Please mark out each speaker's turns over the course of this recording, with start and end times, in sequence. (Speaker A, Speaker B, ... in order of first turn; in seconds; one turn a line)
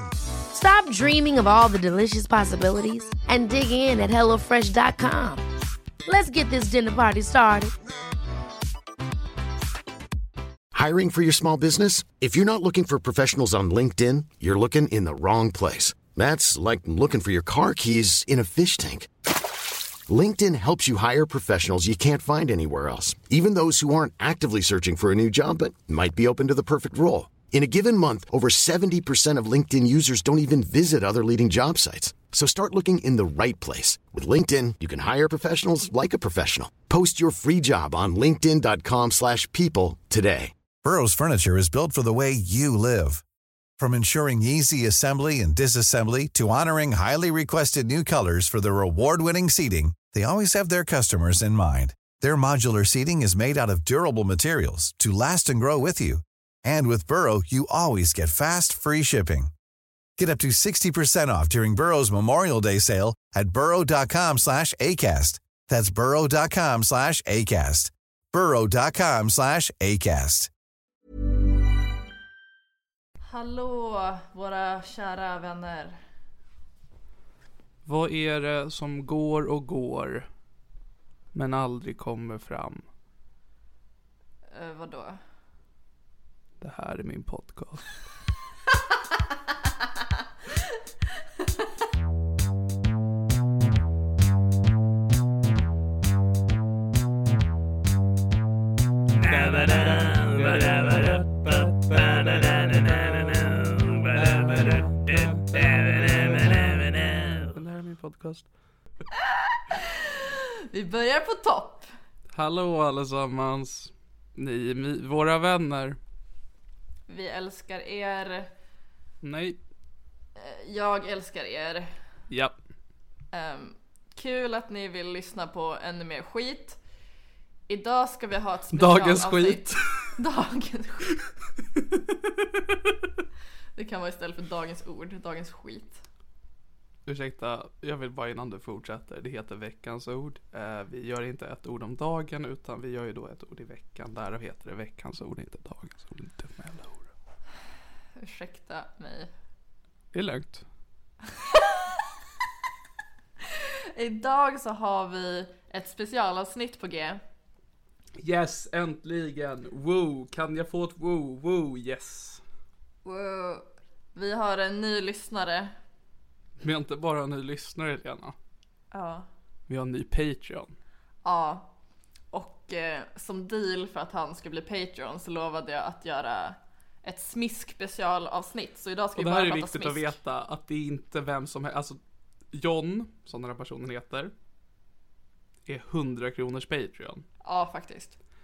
Speaker A: 0.5-5.4
Speaker A: 6.1-7.7
Speaker B: 10.7-19.1
Speaker B: 20.1-40.5
Speaker C: 40.8-43.2
Speaker C: 43.8-59.5
Speaker C: 60.2-70.5
Speaker D: 73.2-76.0
Speaker E: 77.8-80.3
Speaker E: 81.3-82.8
Speaker D: 84.5-85.2
Speaker E: 86.6-88.0
Speaker E: 99.2-108.5
Speaker D: 109.7-111.9
Speaker E: 112.3-116.0
Speaker D: 117.1-118.5
Speaker E: 119.2-119.6
Speaker D: 120.4-121.9
Speaker D: 123.3-126.8
Speaker D: 127.7-131.1
Speaker E: 128.7-130.2
Speaker D: 133.8-136.0
Speaker E: 137.1-147.1
Speaker D: 148.2-149.3
Speaker E: 150.1-150.7
Speaker D: 151.4-151.8
Speaker D: 153.5-157.2
Speaker E: 158.2-162.4
Speaker D: 163.1-165.7
Speaker E: 166.6-168.3
Speaker D: 168.9-169.3
Speaker E: 169.7-170.8
Speaker D: 171.2-171.7
Speaker D: 172.3-180.2
Speaker E: 179.2-182.0
Speaker E: 182.5-184.3
Speaker E: 185.7-187.2
Speaker D: 187.4-188.2